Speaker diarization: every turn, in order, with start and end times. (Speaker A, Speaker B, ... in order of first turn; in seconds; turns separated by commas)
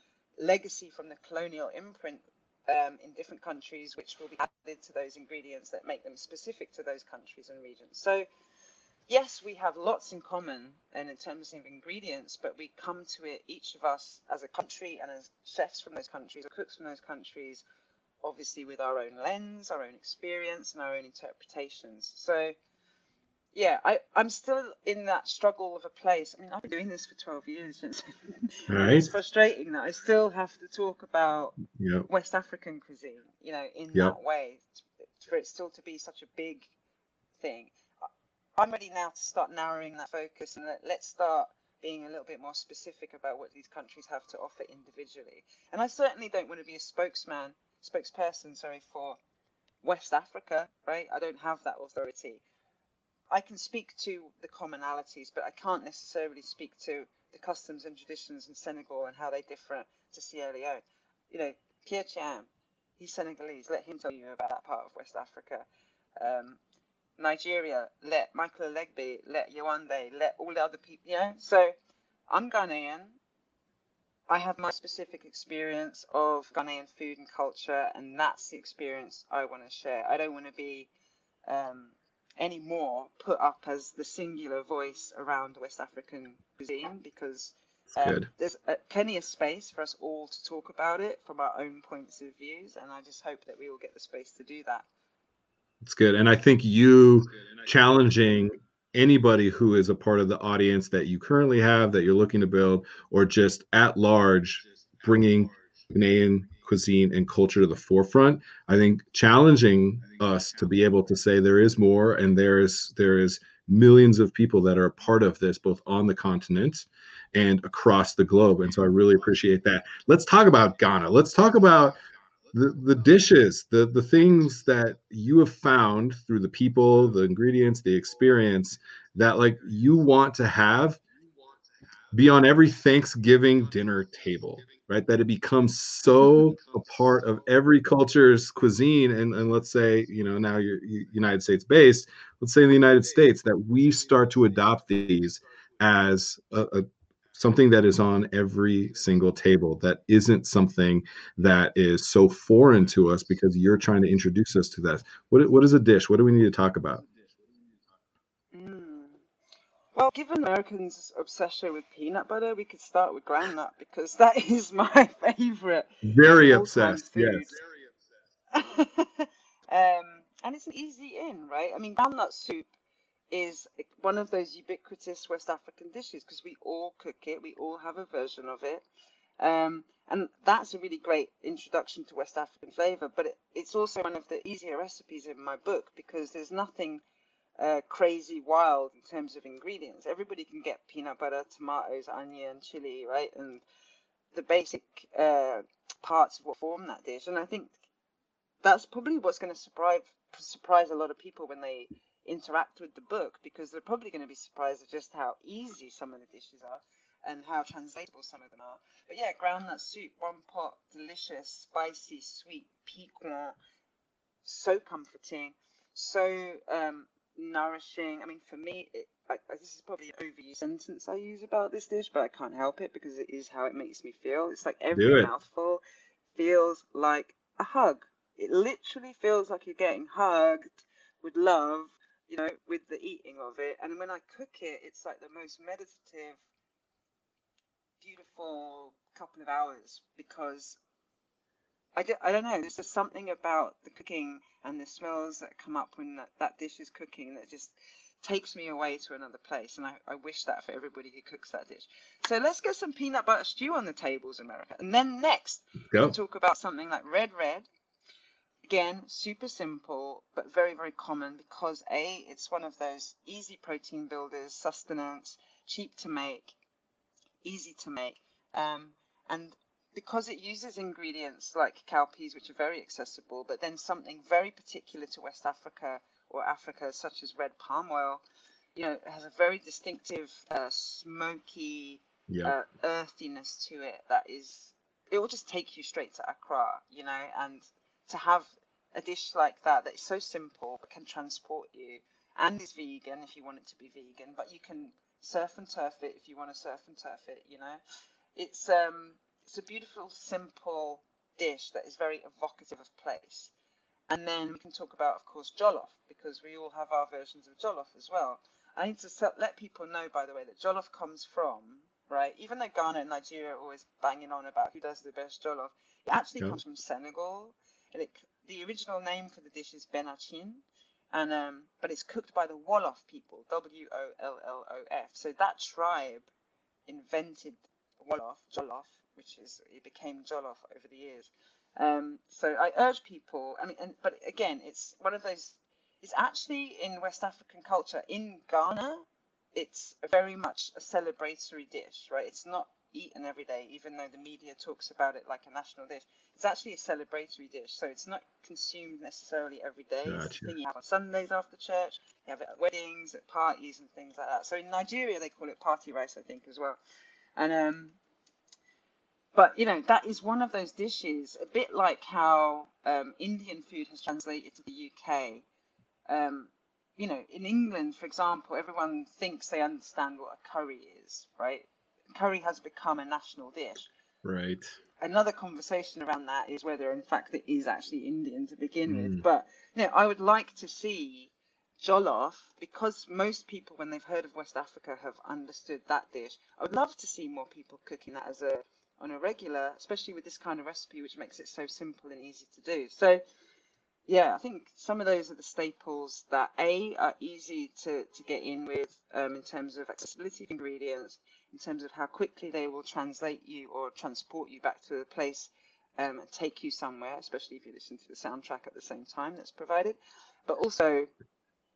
Speaker A: 0.4-8.2, Speaker A: 9.1-17.6, Speaker A: 18.2-22.5, Speaker A: 23.5-36.7, Speaker B: 28.7-29.1, Speaker B: 31.7-32.0, Speaker A: 37.4-38.0, Speaker A: 38.6-49.2, Speaker A: 49.8-52.4, Speaker A: 53.3-65.7, Speaker A: 66.2-66.6, Speaker A: 67.2-71.7, Speaker A: 72.3-73.2, Speaker A: 74.3-80.9, Speaker A: 81.5-94.8, Speaker B: 88.0-88.3, Speaker B: 95.8-122.0, Speaker B: 122.5-131.0, Speaker B: 132.1-157.0, Speaker A: 158.5-159.2, Speaker A: 159.9-167.6, Speaker B: 166.0-167.5, Speaker A: 168.5-172.7, Speaker A: 173.3-178.8, Speaker A: 179.4-187.0, Speaker A: 187.6-193.6, Speaker A: 194.3-197.8, Speaker A: 198.6-213.6, Speaker A: 214.4-225.8, Speaker B: 224.9-225.3, Speaker A: 226.3-236.4, Speaker A: 238.0-240.8, Speaker A: 241.9-257.7, Speaker B: 255.9-256.1, Speaker A: 258.6-266.5, Speaker A: 267.4-278.2, Speaker A: 278.7-297.8, Speaker B: 282.3-282.5, Speaker A: 298.4-303.5, Speaker A: 304.1-326.3, Speaker A: 326.9-356.8, Speaker B: 350.1-350.5, Speaker A: 357.4-358.0, Speaker A: 359.3-365.4, Speaker A: 366.1-373.9, Speaker B: 374.2-374.7, Speaker A: 375.0-393.2, Speaker B: 378.9-379.2, Speaker A: 394.1-411.1